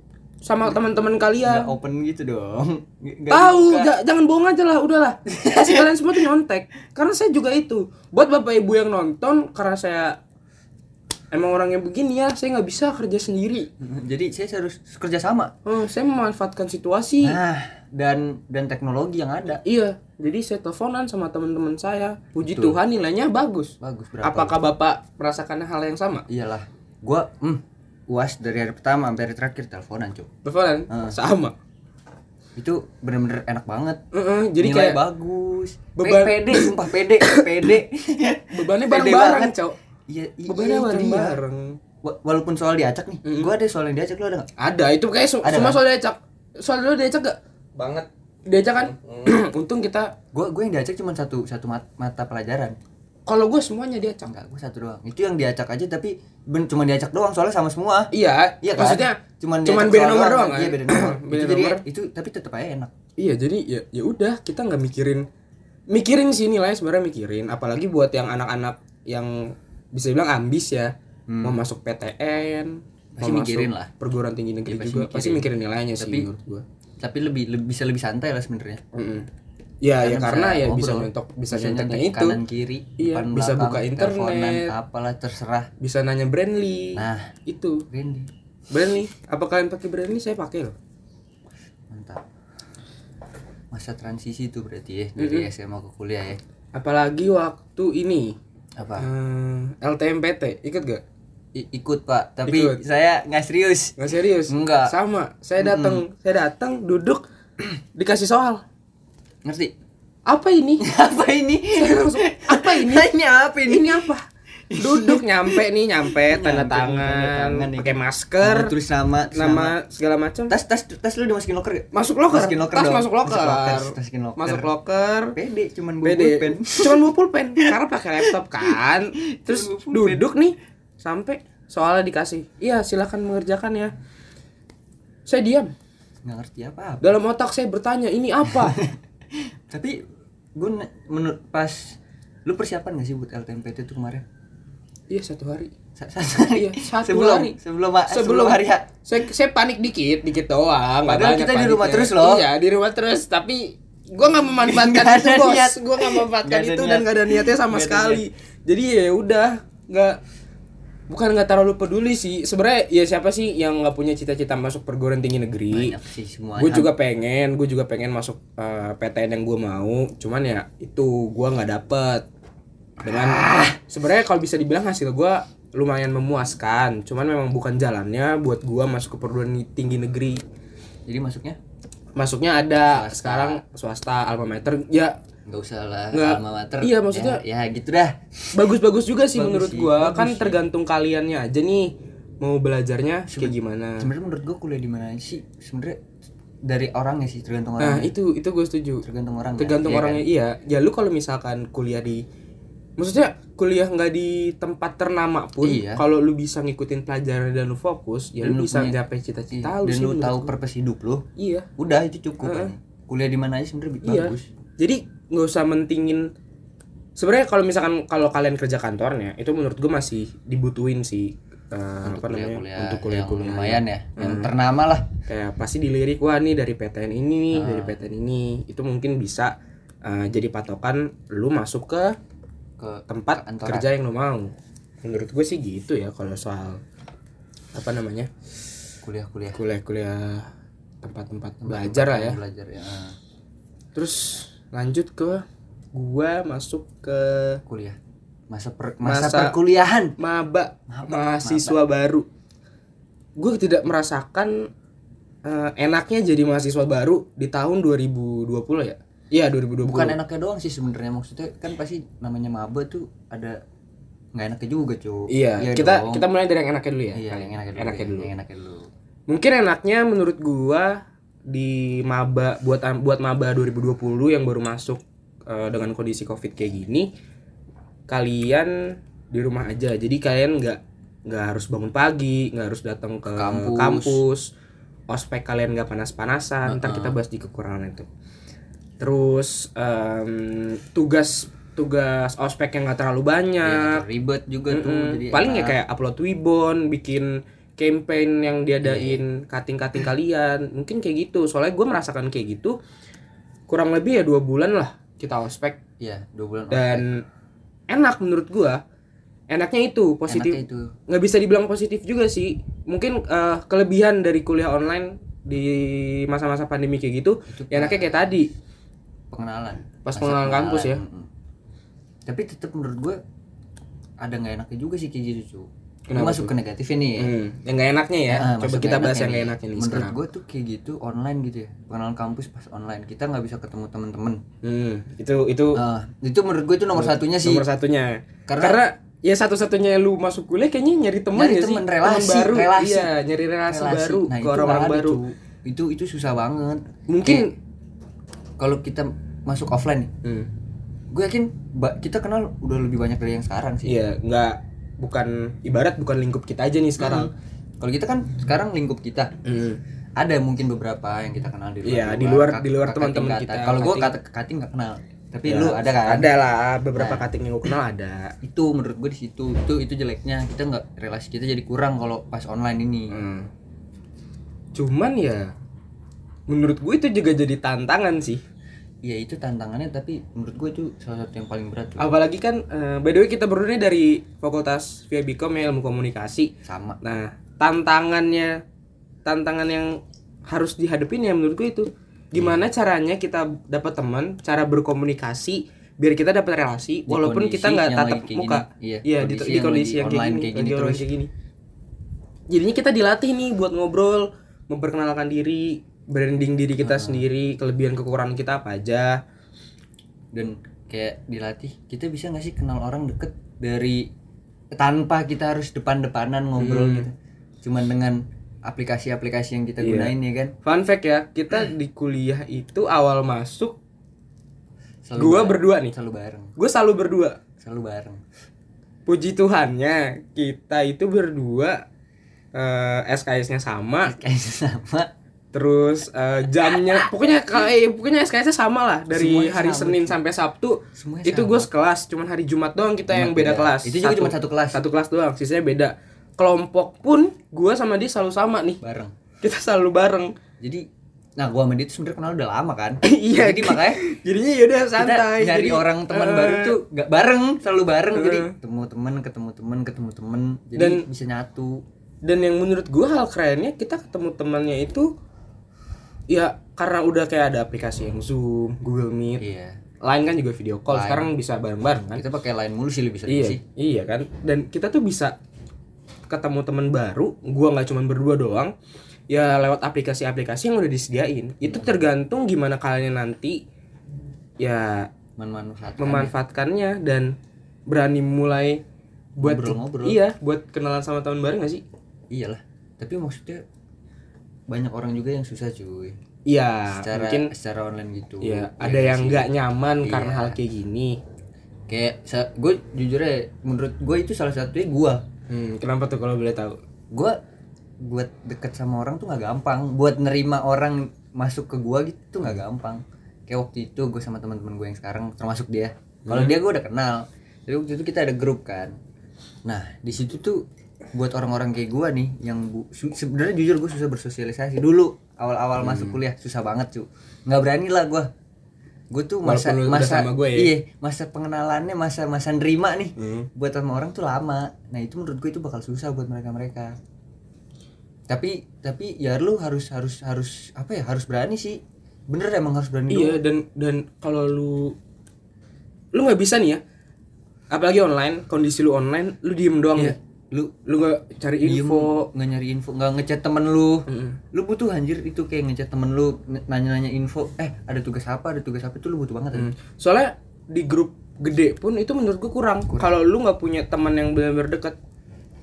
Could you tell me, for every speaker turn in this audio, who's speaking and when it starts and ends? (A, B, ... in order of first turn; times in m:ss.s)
0:00.4-0:01.7 A
0:01.4-0:03.9 B
0:03.3-0:10.2 A
0:05.3-0:05.9 B
0:11.3-0:13.7 A
0:13.8-0:15.5 B
0:15.6-0:17.4 A
0:17.2-0:19.6 B
0:19.6-0:26.2 A
0:22.4-0:22.8 B
0:23.8-0:24.6 B
0:26.3-0:30.3 B
0:30.4-0:31.5 A
0:30.9-0:31.2 B
0:32.6-0:34.0 B
0:34.1-0:35.0 A
0:34.6-0:39.5 B
0:36.0-0:37.6 A
0:38.5-0:39.8 A
0:40.1-0:41.4 B
0:40.5-0:41.8 A
0:42.0-0:44.5 B
0:43.2-0:43.5 A
0:44.6-0:47.4 A
0:45.4-0:45.8 B
0:47.8-0:48.0 B
0:48.4-0:50.1 A
0:49.0-0:49.2 B
0:50.3-0:52.8 B
0:53.3-0:54.3 A
0:54.2-0:58.1 B
0:58.1-1:01.8 A
0:58.6-1:02.9 B
1:03.2-1:05.2 A
1:05.9-1:16.6 A
1:11.3-1:11.6 B
1:13.2-1:13.9 B
1:14.7-1:15.4 B
1:16.0-1:16.3 B
1:17.0-1:18.8 B
1:18.9-1:19.3 A
1:19.8-1:22.4 A
1:20.0-1:25.7 B
1:23.0-1:24.7 A
1:25.8-1:27.8 A
1:27.0-1:27.3 B
1:27.9-1:28.3 B
1:28.7-1:30.7 A
1:31.9-1:32.2 B
1:33.7-1:36.4 B
1:35.2-1:35.5 A
1:36.7-1:38.4 A
1:38.8-1:39.1 B
1:39.0-1:41.0 A
1:41.5-1:44.0 B
1:42.5-1:42.8 A
1:44.0-1:47.2 A
1:44.5-1:44.9 B
1:45.6-1:46.0 B
1:47.9-1:48.6 A
1:49.4-1:49.7 B
1:50.3-1:50.8 A
1:50.8-1:54.0 B
1:51.7-1:53.1 A
1:53.6-1:54.2 A
1:54.7-1:59.7 B
1:54.8-1:58.7 A
1:59.3-2:00.5 A
2:00.5-2:04.7 B
2:01.9-2:05.3 A
2:05.3-2:07.0 B
2:06.0-2:13.9 A
2:09.3-2:10.3 B
2:15.3-2:15.7 A
2:16.2-2:17.1 B
2:17.0-2:18.8 A
2:18.5-2:20.0 B
2:20.6-2:24.2 B
2:25.1-2:25.7 A
2:26.0-2:28.9 B
2:26.5-2:27.6 A
2:28.1-2:40.2 A
2:31.0-2:32.4 B
2:34.6-2:38.2 B
2:41.1-2:45.9 A
2:45.7-2:46.9 B
2:46.6-2:52.3 A
2:53.0-3:00.4 A
2:53.0-2:53.8 B
3:01.1-3:01.6 B
3:02.2-3:05.2 A
3:02.8-3:03.6 B
3:05.4-3:08.6 B
3:06.1-3:07.4 A
3:08.5-3:14.1 A
3:09.3-3:10.6 B
3:13.3-3:16.0 B
3:16.6-3:18.1 B
3:17.8-3:19.0 A
3:19.0-3:20.2 B
3:19.6-3:22.2 A
3:23.0-3:30.5 A
3:25.6-3:26.0 B
3:28.4-3:29.0 B
3:29.5-3:31.2 B
3:31.4-3:31.7 A
3:31.8-3:34.5 B
3:32.4-3:32.7 A
3:34.0-3:36.3 A
3:37.2-3:44.5 A
3:42.0-3:45.1 B
3:45.2-3:52.2 A
3:47.5-3:48.0 B
3:52.8-3:53.9 B
3:53.1-3:56.8 A
3:57.7-3:58.3 A
3:59.0-3:59.6 B
3:59.5-4:00.5 A
4:01.0-4:02.4 A
4:01.6-4:03.2 B
4:03.9-4:07.6 A
4:07.7-4:08.0 B
4:08.5-4:10.1 B
4:09.0-4:09.5 A
4:10.2-4:12.2 A
4:10.9-4:11.8 B
4:13.4-4:14.7 A
4:15.4-4:20.2 A
4:19.8-4:23.6 B
4:24.3-4:26.2 B
4:25.3-4:28.3 A
4:27.1-4:28.9 B
4:29.3-4:37.1 A
4:38.1-4:44.5 A
4:43.4-4:44.2 B
4:45.1-4:48.1 A
4:46.6-4:47.2 B
4:49.0-4:54.0 A
4:53.6-4:55.8 B
4:54.7-5:02.8 A
4:58.8-4:59.2 B
5:03.7-5:05.8 A
5:06.0-5:07.1 B
5:06.7-5:07.2 A
5:07.9-5:08.8 A
5:09.5-5:18.5 A
5:10.3-5:10.9 B
5:17.5-5:18.3 B
5:19.3-5:21.3 B
5:20.0-5:21.0 A
5:22.2-5:23.2 B
5:24.2-5:27.3 B
5:26.1-5:26.5 A
5:27.2-5:30.2 A
5:28.3-5:34.4 B
5:34.6-5:35.8 A
5:35.7-5:37.6 B
5:36.9-5:45.2 A
5:38.5-5:38.8 B
5:41.3-5:43.1 B
5:43.7-5:47.4 B
5:47.1-5:47.5 A
5:48.6-5:50.1 B
5:51.1-5:53.9 B
5:53.9-5:57.3 A
5:57.0-5:59.3 B
5:59.4-5:59.8 A
6:00.2-6:06.3 B
6:01.8-6:04.1 A
6:05.4-6:08.3 A
6:06.9-6:07.3 B
6:08.4-6:13.2 B
6:13.1-6:13.5 A
6:14.7-6:15.5 A
6:16.5-6:18.4 A
6:19.0-6:22.1 B
6:22.0-6:26.5 A
6:26.6-6:27.0 B
6:27.0-6:28.6 A
6:29.2-6:41.3 A
6:32.3-6:32.6 B
6:37.1-6:41.1 B
6:42.5-6:49.2 A
6:46.8-6:47.2 B
6:50.3-6:54.1 B
6:54.7-7:00.5 B
6:56.6-6:57.1 A
6:59.8-7:00.1 A
7:00.6-7:03.8 A
7:05.0-7:06.5 B
7:05.2-7:05.9 A
7:06.6-7:07.4 A
7:07.6-7:08.2 B
7:09.1-7:11.8 A
7:12.5-7:14.2 A
7:14.0-7:15.1 B
7:15.5-7:28.8 A
7:16.6-7:17.1 B
7:19.1-7:20.2 B
7:20.9-7:21.7 B
7:23.1-7:24.8 B
7:28.8-7:29.1 B
7:29.4-7:30.3 A
7:30.6-7:30.8 B
7:31.4-7:34.0 B
7:33.0-7:36.8 A
7:35.0-7:41.8 B
7:38.1-7:38.5 A
7:40.8-7:41.0 A
7:42.2-7:45.1 A
7:46.3-7:49.4 A
7:49.4-7:49.8 B
7:50.0-7:52.2 A
7:50.9-7:51.3 B
7:51.9-7:53.6 B
7:53.3-7:55.4 A
7:56.3-7:58.7 A
7:59.3-8:03.6 A
8:04.6-8:05.1 A
8:05.4-8:06.3 B
8:06.0-8:07.3 A
8:07.9-8:08.8 A
8:09.4-8:10.2 B
8:09.4-8:11.8 A
8:12.3-8:13.6 B
8:14.7-8:16.2 B
8:16.5-8:17.5 A
8:16.9-8:19.5 B
8:18.4-8:21.2 A
8:20.0-8:20.6 B
8:21.9-8:25.2 B
8:25.5-8:26.8 A
8:27.1-8:27.4 B
8:28.0-8:39.0 B
8:36.3-8:36.6 A
8:39.6-8:48.3 B
8:45.8-8:46.2 A
8:49.1-8:56.9 B
8:49.4-8:50.7 A
8:53.2-8:53.5 A
8:58.3-9:03.4 B
9:03.1-9:05.0 A
9:06.1-9:06.8 A
9:07.7-9:10.2 A
9:10.0-9:10.7 B
9:10.8-9:12.3 A
9:11.6-9:19.7 B
9:14.1-9:14.4 A
9:19.5-9:25.0 A